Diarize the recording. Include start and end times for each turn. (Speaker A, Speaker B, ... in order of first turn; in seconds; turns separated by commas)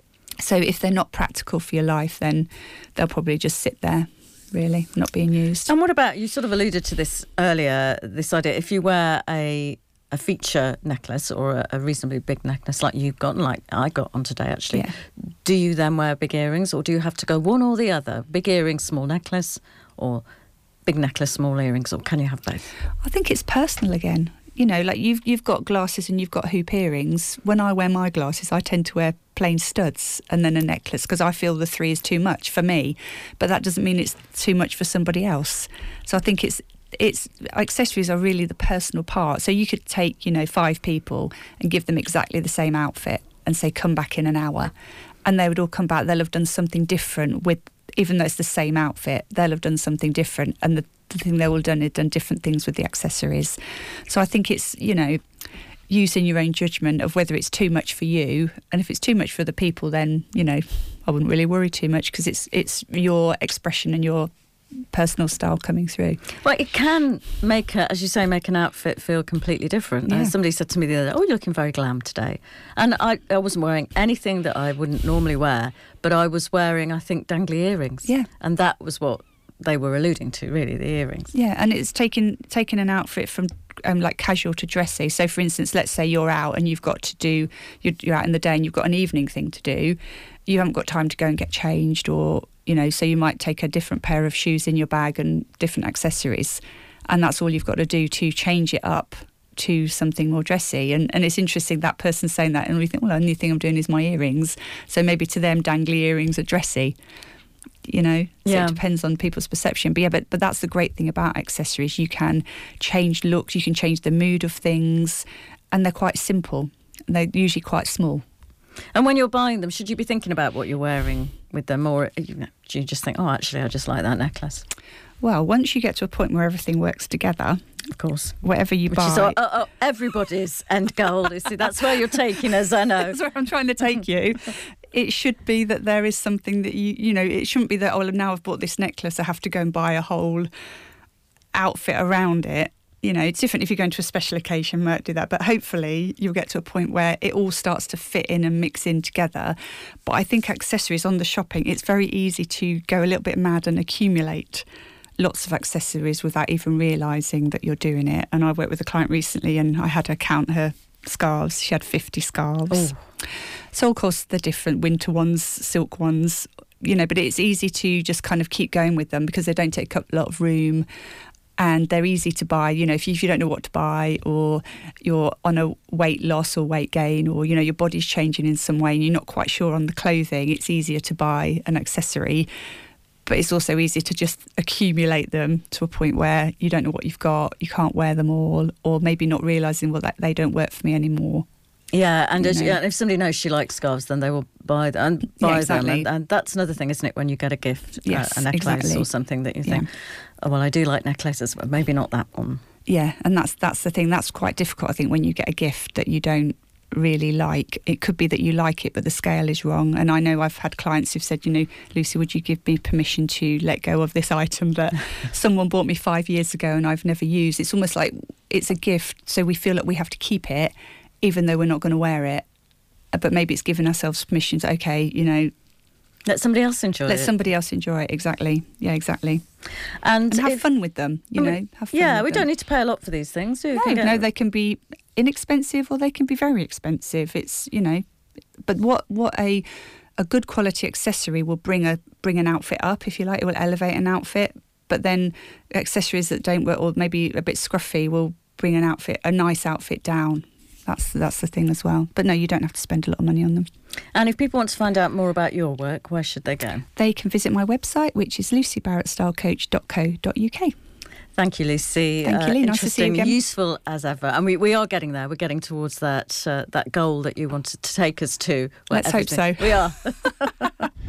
Speaker A: 0.4-5.7, Speaker B: 5.6-20.2, Speaker B: 20.9-22.7, Speaker A: 23.0-44.7, Speaker A: 45.2-53.6, Speaker A: 54.1-55.2, Speaker A: 55.9-64.3, Speaker A: 64.9-66.2, Speaker B: 66.4-81.3, Speaker A: 70.0-70.3, Speaker A: 81.3-106.9, Speaker A: 107.8-118.2, Speaker B: 108.4-108.8, Speaker B: 118.9-124.7, Speaker A: 125.2-127.6, Speaker B: 128.0-128.4, Speaker A: 128.4-129.4, Speaker B: 128.9-133.2, Speaker A: 133.0-140.5, Speaker A: 141.5-154.6, Speaker A: 155.2-162.9, Speaker B: 162.7-163.0, Speaker A: 163.7-170.8, Speaker A: 171.6-182.5, Speaker A: 183.2-191.4, Speaker B: 191.9-202.6, Speaker A: 192.3-192.8, Speaker A: 195.4-196.1, Speaker A: 198.1-199.1, Speaker A: 202.9-222.4, Speaker A: 223.1-225.5, Speaker B: 226.3-227.3, Speaker A: 227.1-229.4, Speaker B: 230.0-230.6, Speaker A: 230.3-232.5, Speaker B: 231.4-234.2, Speaker A: 233.7-238.0, Speaker A: 238.6-239.7, Speaker A: 240.2-253.7, Speaker B: 254.1-256.9, Speaker A: 256.9-260.7, Speaker B: 261.4-270.9, Speaker A: 262.2-263.4, Speaker A: 268.9-269.9